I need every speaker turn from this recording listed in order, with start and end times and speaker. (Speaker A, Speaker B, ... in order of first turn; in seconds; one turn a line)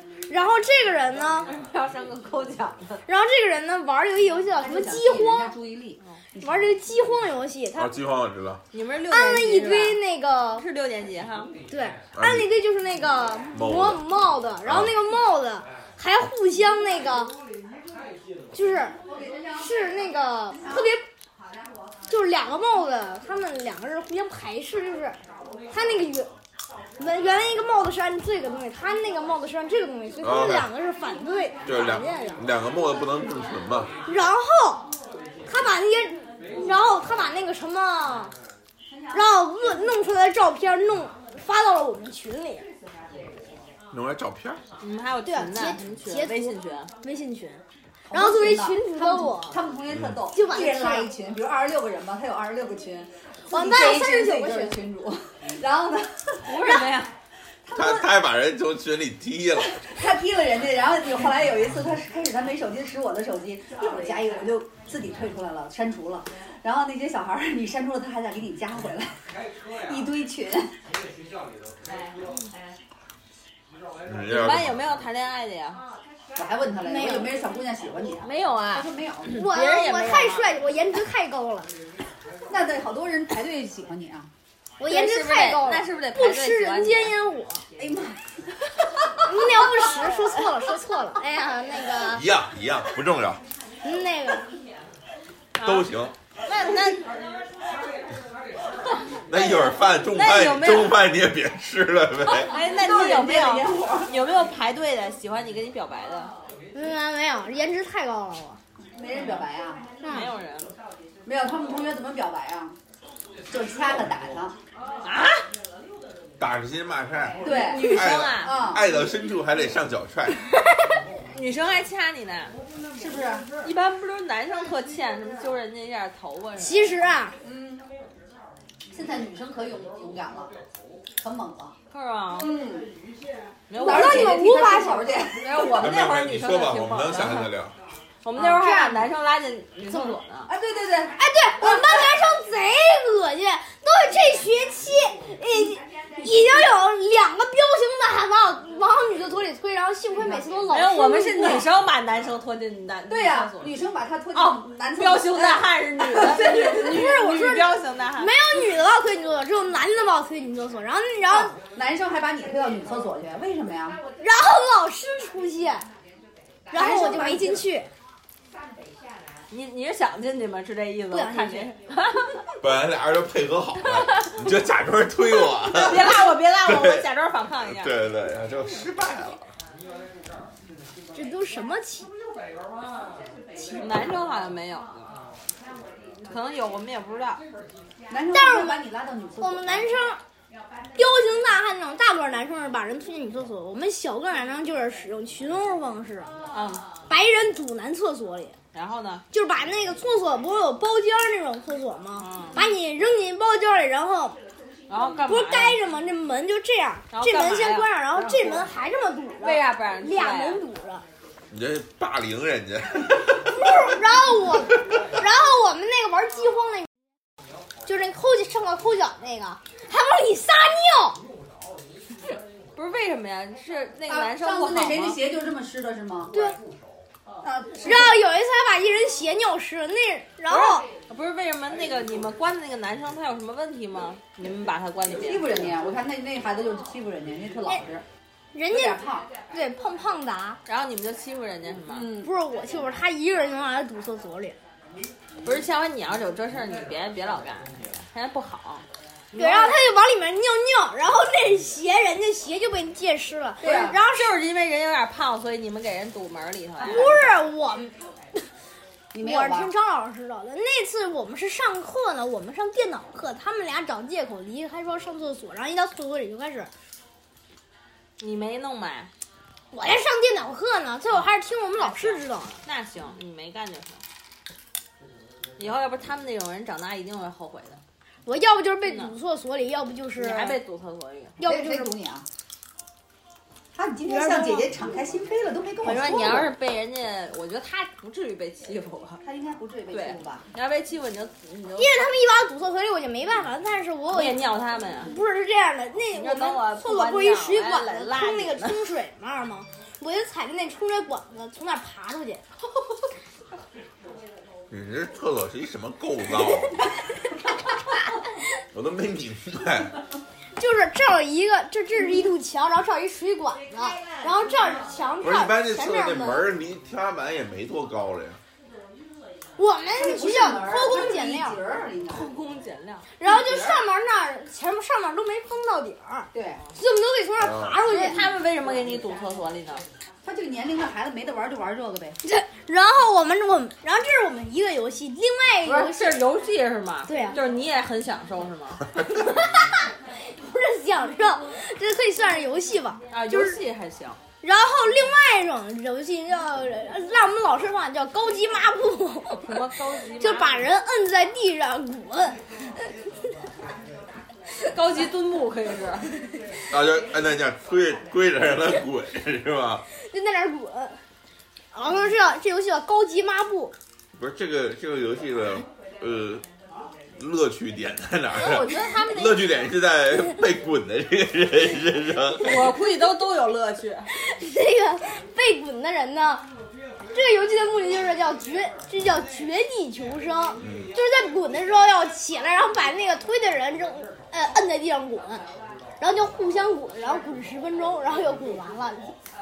Speaker A: 0.3-1.5
Speaker B: 1.5-3.0
Speaker A: 3.1-5.5
Speaker C: 4.6-6.7
Speaker A: 6.4-7.9
Speaker D: 7.8-8.6
Speaker B: 8.7-10.0
Speaker A: 9.1-10.6
Speaker B: 10.6-11.5
Speaker A: 11.7-17.3
Speaker D: 12.1-12.5
Speaker D: 13.5-14.0
Speaker D: 14.6-14.9
Speaker A: 18.5-18.9
Speaker A: 19.6-21.0
Speaker A: 22.1-25.1
Speaker A: 25.7-26.3
Speaker A: 27.0-32.5
Speaker D: 30.2-30.7
Speaker D: 31.6-33.9
Speaker A: 34.0-34.9
Speaker A: 35.5-38.3
Speaker A: 39.1-42.7
Speaker D: 43.9-44.6
Speaker B: 44.8-46.9
Speaker A: 45.2-47.6
Speaker C: 48.1-56.8
Speaker A: 48.1-49.6
Speaker D: 49.9-50.2
Speaker A: 50.3-51.1
Speaker A: 53.5-54.8
Speaker B: 56.4-57.1
Speaker C: 57.6-58.1
Speaker D: 57.7-59.8
Speaker C: 59.6-69.2
Speaker C: 69.8-70.7
Speaker D: 74.0-74.8
Speaker B: 74.3-75.8
Speaker C: 76.3-79.4
Speaker A: 76.8-77.4
Speaker B: 78.2-80.5
Speaker A: 79.3-81.7
Speaker C: 82.5-84.3
Speaker A: 84.8-87.6
Speaker B: 84.8-87.1
Speaker C: 87.8-88.2
Speaker A: 89.2-92.2
Speaker C: 89.4-89.7
Speaker D: 92.1-93.4
Speaker A: 93.8-94.5
Speaker B: 95.5-95.9
Speaker D: 95.6-96.1
Speaker B: 96.5-97.0
Speaker D: 99.3-102.5
Speaker A: 99.3-99.7
Speaker B: 100.1-101.0
Speaker B: 102.3-106.3
Speaker C: 102.5-104.1
Speaker A: 106.7-108.6
Speaker C: 108.9-109.8
Speaker A: 110.0-110.3
Speaker B: 110.0-110.7
Speaker C: 111.2-112.8
Speaker C: 113.5-114.6
Speaker B: 115.0-115.4
Speaker D: 116.4-120.4
Speaker C: 117.4-118.8
Speaker B: 117.4-118.5
Speaker B: 121.3-122.5
Speaker C: 123.0-123.5
Speaker B: 123.6-126.9
Speaker A: 126.6-127.3
Speaker C: 127.4-127.8
Speaker C: 128.9-130.5
Speaker C: 131.2-131.8
Speaker B: 131.9-132.5
Speaker C: 132.3-132.9
Speaker B: 133.7-134.5
Speaker A: 133.8-135.2
Speaker C: 133.8-135.8
Speaker B: 135.4-137.5
Speaker D: 135.7-137.8
Speaker B: 138.2-140.5
Speaker C: 138.3-139.1
Speaker C: 139.9-142.2
Speaker A: 141.2-151.7
Speaker C: 150.2-150.6
Speaker B: 150.7-153.7
Speaker C: 151.4-151.7
Speaker C: 153.1-157.1
Speaker B: 154.3-158.3
Speaker A: 156.4-161.5
Speaker C: 161.3-164.0
Speaker A: 164.2-165.8
Speaker A: 166.7-167.9
Speaker C: 166.7-167.6
Speaker B: 169.5-172.2
Speaker A: 171.1-171.7
Speaker D: 172.6-177.0
Speaker B: 175.7-177.9
Speaker D: 177.7-179.4
Speaker A: 181.1-182.1
Speaker B: 183.6-185.1
Speaker B: 186.2-187.4
Speaker C: 188.1-189.9
Speaker A: 188.3-188.8
Speaker A: 189.4-190.2
Speaker A: 190.9-196.3
Speaker B: 196.5-196.8
Speaker A: 197.1-198.5
Speaker B: 198.7-199.2
Speaker A: 199.3-204.4
Speaker B: 202.2-202.6
Speaker B: 204.9-205.8
Speaker A: 205.2-211.0
Speaker B: 207.1-208.7
Speaker B: 209.4-210.6
Speaker D: 211.5-213.9
Speaker A: 213.5-216.9
Speaker A: 217.8-221.2
Speaker B: 222.8-225.2
Speaker C: 224.1-226.3
Speaker A: 226.3-226.6
Speaker C: 227.4-228.1
Speaker A: 227.8-230.8
Speaker B: 230.5-235.7
Speaker C: 235.2-238.0
Speaker A: 238.5-240.6
Speaker C: 238.7-239.3
Speaker B: 240.7-242.1
Speaker C: 241.9-242.3
Speaker A: 242.2-244.6
Speaker B: 245.4-249.7
Speaker A: 249.3-254.3
Speaker C: 253.6-254.0
Speaker B: 253.6-257.2
Speaker C: 256.8-257.3
Speaker A: 256.8-258.4
Speaker C: 259.1-259.7
Speaker A: 259.2-266.7
Speaker B: 268.2-269.1
Speaker A: 269.7-272.6
Speaker B: 271.8-274.0
Speaker B: 275.6-277.8
Speaker A: 278.2-280.6
Speaker B: 278.8-279.1
Speaker B: 280.2-281.4
Speaker A: 281.4-281.9
Speaker C: 281.4-282.2
Speaker C: 283.7-286.5
Speaker A: 284.1-284.7
Speaker B: 285.8-289.2
Speaker C: 289.2-290.4
Speaker B: 289.9-292.0
Speaker A: 291.8-294.4
Speaker B: 294.1-295.1
Speaker A: 295.0-302.4
Speaker B: 296.1-298.9
Speaker D: 304.7-306.8
Speaker D: 308.7-310.0
Speaker A: 310.6-316.5
Speaker D: 315.2-318.4
Speaker A: 319.6-321.6
Speaker C: 319.9-322.3
Speaker B: 322.1-323.1
Speaker A: 323.2-328.2
Speaker C: 323.2-323.8
Speaker C: 326.3-326.6
Speaker D: 327.4-327.8
Speaker B: 327.8-329.8
Speaker C: 330.2-332.2
Speaker A: 332.2-336.2
Speaker B: 335.6-338.8
Speaker A: 337.1-337.4
Speaker A: 339.1-339.7
Speaker A: 340.2-343.6
Speaker B: 343.1-344.2
Speaker A: 344.4-349.6
Speaker B: 349.4-350.6
Speaker A: 350.2-352.4
Speaker B: 354.6-356.1
Speaker D: 356.7-359.8
Speaker A: 360.0-361.0
Speaker A: 361.7-363.7
Speaker D: 364.1-366.4
Speaker D: 367.1-372.7
Speaker B: 368.3-369.4
Speaker B: 372.4-374.1
Speaker A: 374.2-376.5
Speaker A: 377.1-385.4
Speaker D: 380.6-380.9
Speaker A: 386.0-389.1